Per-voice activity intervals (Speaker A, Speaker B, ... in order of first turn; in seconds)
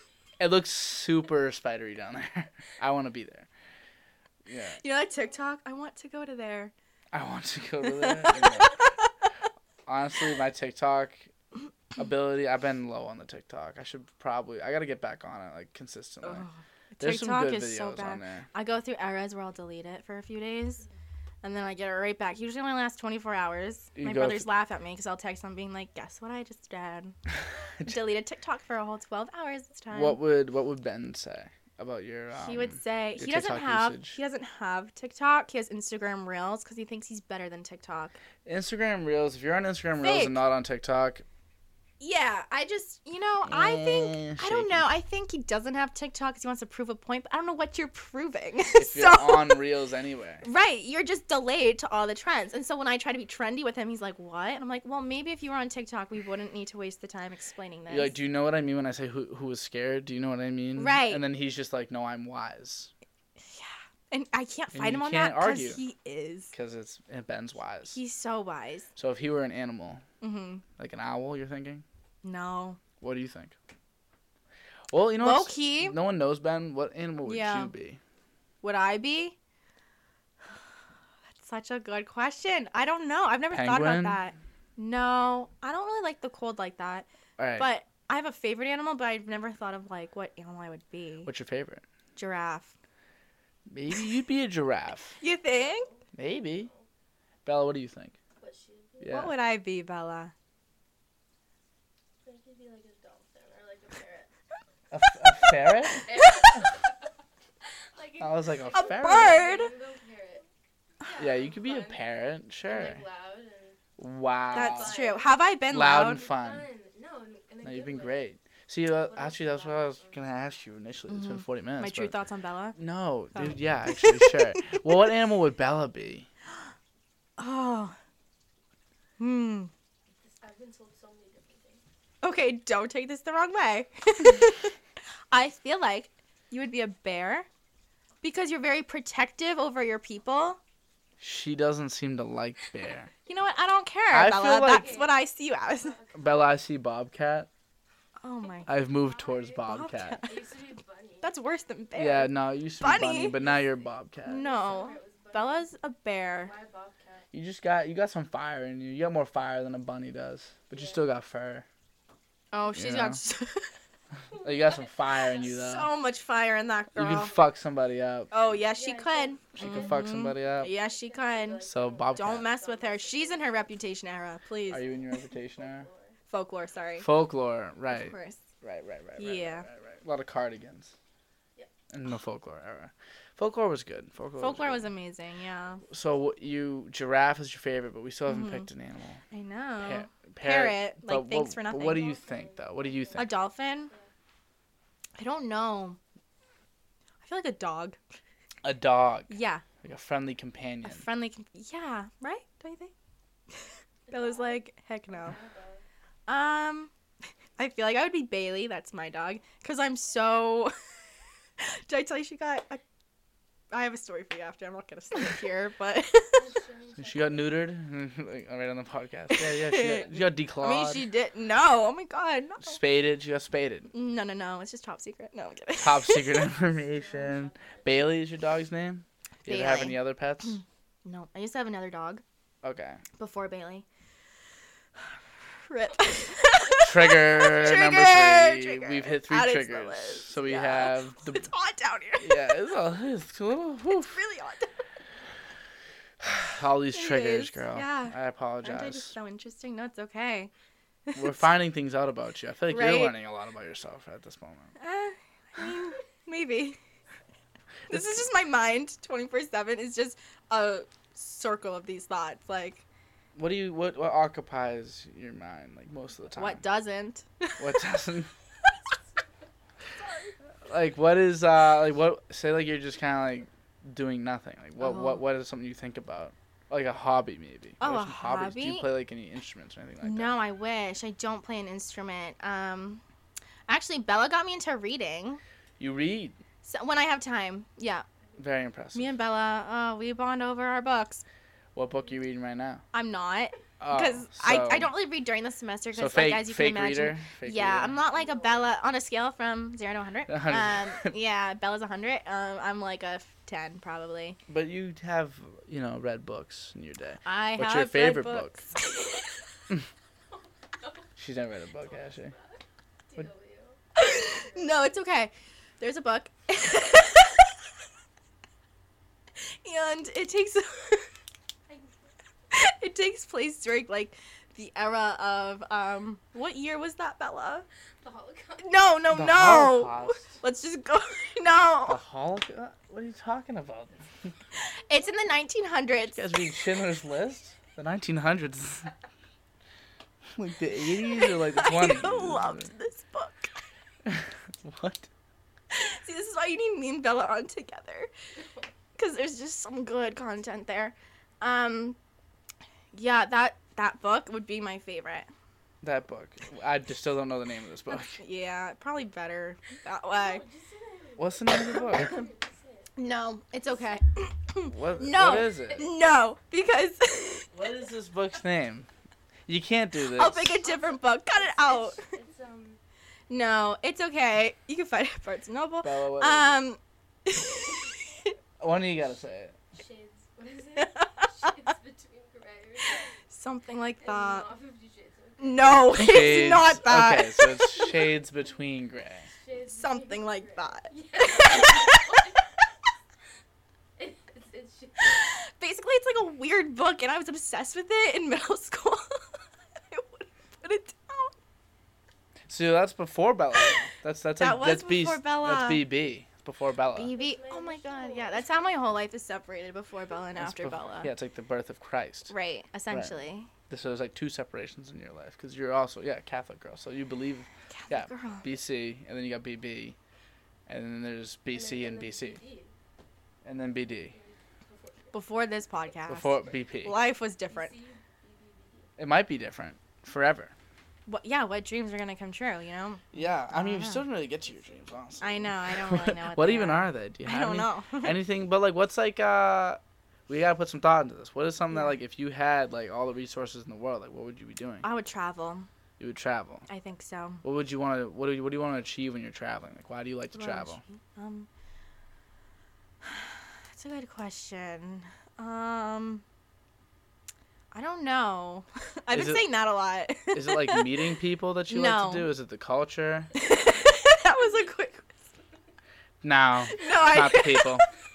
Speaker A: 0.4-3.5, 4.5-4.8, 7.1-8.8, 9.9-11.3, 11.9-16.4, 17.0-18.5, 23.9-24.4, 29.9-34.2, 38.4-41.2, 43.4-44.8, 48.8-50.4, 57.9-62.9, 64.7-65.8, 66.5-68.0, 69.0-70.0, 70.8-71.8, 73.0-73.5, 74.9-78.0, 83.5-84.2, 87.4-87.7, 91.3-91.8, 93.7-95.1, 96.1-96.7, 97.4-98.2, 99.0-99.3, 104.9-106.7, 108.2-109.4, 111.2-113.0, 114.0-115.0, 115.7-116.7, 117.6-122.2, 122.8-126.3, 141.2-143.1, 144.1-145.0, 146.1-147.5, 148.7-150.2, 151.9-154.4, 157.3-161.6, 162.7-163.2, 164.4-165.9, 166.9-168.3, 169.6-170.7, 171.6-172.5, 174.7-175.9, 177.0-180.9, 181.9-184.9, 185.9-189.2, 189.8-193.3, 198.6-201.1, 217.0-221.1, 222.6-223.9, 225.8-230.6, 232.6-233.0, 236.8-241.5, 242.2-244.2, 246.4-249.1, 251.1-254.7, 263.4-266.6, 267.6-268.3, 270.6-280.3, 285.8-286.4, 288.4-289.1, 291.7-292.8, 293.8-294.9, 295.9-298.0, 300.3-301.1, 304.5-308.6, 311.2-312.4, 329.1-330.4, 331.9-334.3, 336.1-338.9, 340.3-342.7, 344.1-345.1, 355.8-358.2, 361.2-362.2, 364.7-365.9, 367.5-368.9, 369.5-370.6, 375.8-376.6, 378.6-379.6, 385.7-389.3, 402.5-407.1, 410.4-412.3, 412.9-413.2, 413.7-419.9, 420.7-422.4, 423.4-424.1, 426.1-427.0, 429.0-430.5, 433.1-444.9, 446.0-446.6, 447.4-450.8, 459.1-459.5, 460.3-463.3, 466.2-467.9
Speaker B: 4.8-6.7, 7.8-9.1, 16.2-20.8, 21.4-27.1, 27.8-30.2, 32.3-38.1, 40.0-40.4, 42.0-49.6, 50.4-58.1, 60.8-61.2, 63.4-66.5, 67.9-68.9, 70.2-70.6, 72.2-72.8, 75.2-76.0, 77.3-77.7, 78.6-79.4, 81.3-91.3, 92.2-92.7, 95.2-95.9, 99.1-100.3, 108.7-109.7, 114.5-116.2, 121.1-122.8, 123.3-124.9, 127.4-128.0, 129.2-129.7, 132.2-134.7, 135.3-137.5, 138.2-140.6, 143.3-146.0, 148.2-148.7, 149.7-150.4, 151.2-153.4, 154.2-156.5, 162.5-163.7, 165.5-167.3, 168.3-174.9, 176.3-177.1, 177.9-178.4, 179.2-179.7, 184.4-185.8, 188.3-188.7, 189.3-192.0, 193.1-193.9, 195.2-196.0, 197.2-198.0, 199.3-199.6, 200.8-202.9, 203.5-205.4, 206.3-206.9, 207.6-210.7, 211.6-212.8, 213.7-216.4, 219.3-222.8, 223.9-226.5, 229.4-232.2, 233.2-233.8, 235.6-242.5, 243.9-244.7, 246.9-250.5, 251.1-251.4, 252.7-253.1, 254.8-256.8, 257.9-262.8, 266.4-267.7, 274.8-275.2, 277.8-278.9, 280.0-283.0, 283.7-285.4, 286.6-288.1, 288.9-291.2, 292.9-304.4, 307.2-309.4, 313.9-317.6, 319.6-321.1, 322.5-327.6, 328.6-332.0, 334.6-336.5, 341.0-343.5, 345.7-348.1, 348.9-352.0, 352.9-355.3, 357.9-360.4, 361.9-362.2, 362.9-367.5, 370.1-372.0, 373.3-378.3, 380.8-381.6, 382.9-384.5, 385.4-388.1, 389.7-392.3, 395.0-399.1, 399.9-401.3, 404.4-405.9, 406.9-411.1, 412.3-413.5, 417.7-418.5, 425.1-427.7, 431.1-434.1, 435.2-438.2, 441.7-442.0, 444.8-445.7, 446.7-447.4, 450.3-451.5, 453.0-456.2, 457.7-461.1, 461.7-462.3, 463.3-465.1, 466.7-467.8
Speaker C: 95.4-96.9, 98.4-99.3, 102.2-104.3, 105.9-106.9, 107.7-110.5, 111.0-112.0, 112.6-113.8, 114.5-115.4, 115.9-118.3, 119.0-120.3, 130.2-131.8, 144.6-146.5, 148.7-149.7, 150.2-151.5, 153.3-155.7, 156.4-157.3, 160.7-161.1, 164.3-165.7, 167.0-167.4, 168.6-173.7, 174.8-176.2, 191.7-194.1, 204.1-205.8, 216.3-217.6, 226.6-228.2, 298.1-298.8, 310.8-311.1, 311.8-314.7, 328.0-328.8, 360.1-362.9, 370.6-372.8, 379.7-383.1, 384.0-385.9, 389.3-392.5, 394.0-395.3, 407.1-408.8, 421.5-422.7, 424.1-425.3, 427.5-428.9, 434.5-435.2